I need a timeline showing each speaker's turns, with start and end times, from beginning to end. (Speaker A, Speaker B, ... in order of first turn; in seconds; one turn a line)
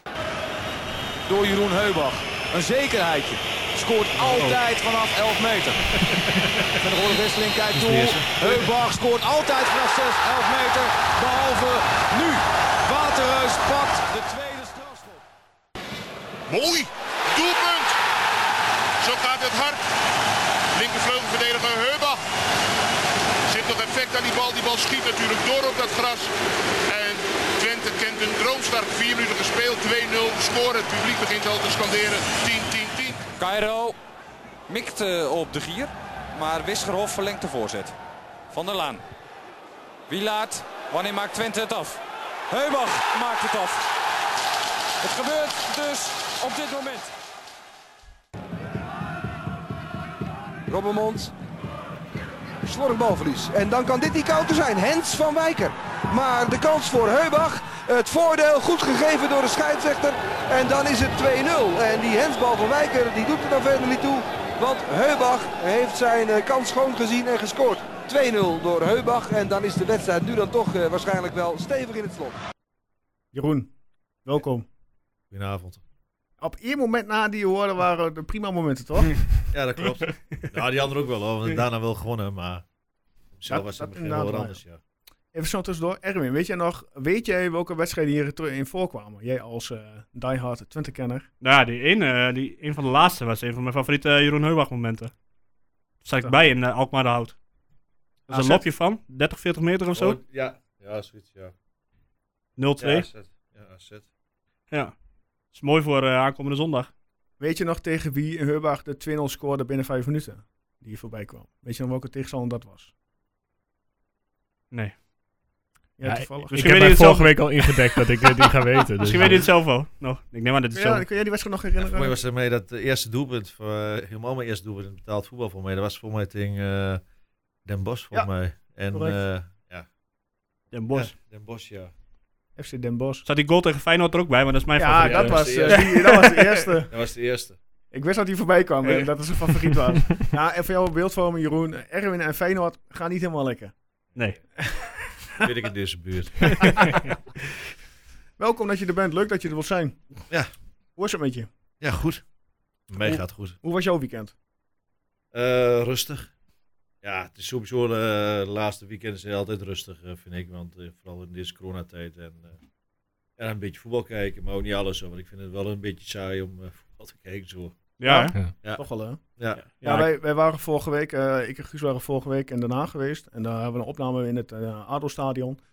Speaker A: 1.3-5.8
Speaker B: 4.2-4.6
Speaker B: 6.0-6.5
Speaker A: 6.7-15.2
Speaker C: 7.9-8.5
Speaker D: 16.5-18.0
Speaker D: 19.0-19.8
Speaker D: 20.7-22.2
Speaker D: 23.5-26.3
Speaker D: 26.9-33.2
Speaker E: 33.4-34.0
Speaker E: 34.7-38.0
Speaker E: 38.5-39.0
Speaker E: 40.1-43.9
Speaker E: 45.0-47.1
Speaker F: 50.7-51.3
Speaker F: 52.6-72.4
Speaker G: 73.3-73.7
Speaker G: 74.2-74.7
Speaker C: 75.3-75.8
Speaker G: 76.4-79.1
Speaker C: 79.5-82.6
Speaker C: 83.4-84.8
Speaker G: 83.5-84.6
Speaker G: 85.3-91.3
Speaker B: 91.4-95.1
Speaker B: 96.0-97.4
Speaker B: 98.3-100.2
Speaker G: 98.3-98.7
Speaker C: 99.9-101.5
Speaker B: 102.6-103.1
Speaker C: 102.8-104.1
Speaker B: 105.5-106.9
Speaker G: 107.4-112.9
Speaker B: 114.7-115.0
Speaker G: 116.0-116.8
Speaker H: 116.0-119.5
Speaker B: 116.5-117.5
Speaker B: 119.0-121.0
Speaker G: 120.7-122.2
Speaker C: 121.8-127.0
Speaker C: 127.7-129.9
Speaker G: 128.9-129.2
Speaker B: 130.7-131.1
Speaker C: 130.9-131.9
Speaker G: 132.6-133.2
Speaker B: 133.2-136.5
Speaker G: 134.8-136.9
Speaker C: 134.9-135.9
Speaker C: 136.9-137.6
Speaker G: 137.9-143.7
Speaker B: 138.9-139.6
Speaker G: 144.6-145.4
Speaker C: 145.4-146.9
Speaker G: 146.6-147.0
Speaker G: 148.4-150.0
Speaker G: 151.0-151.5
Speaker C: 151.8-152.2
Speaker C: 152.9-153.6
Speaker G: 153.0-154.3
Speaker C: 155.3-156.3
Speaker C: 157.0-162.6
Speaker C: 163.4-167.8
Speaker B: 168.0-168.3
Speaker G: 168.0-175.6
Speaker C: 169.4-169.6
Speaker B: 169.6-170.1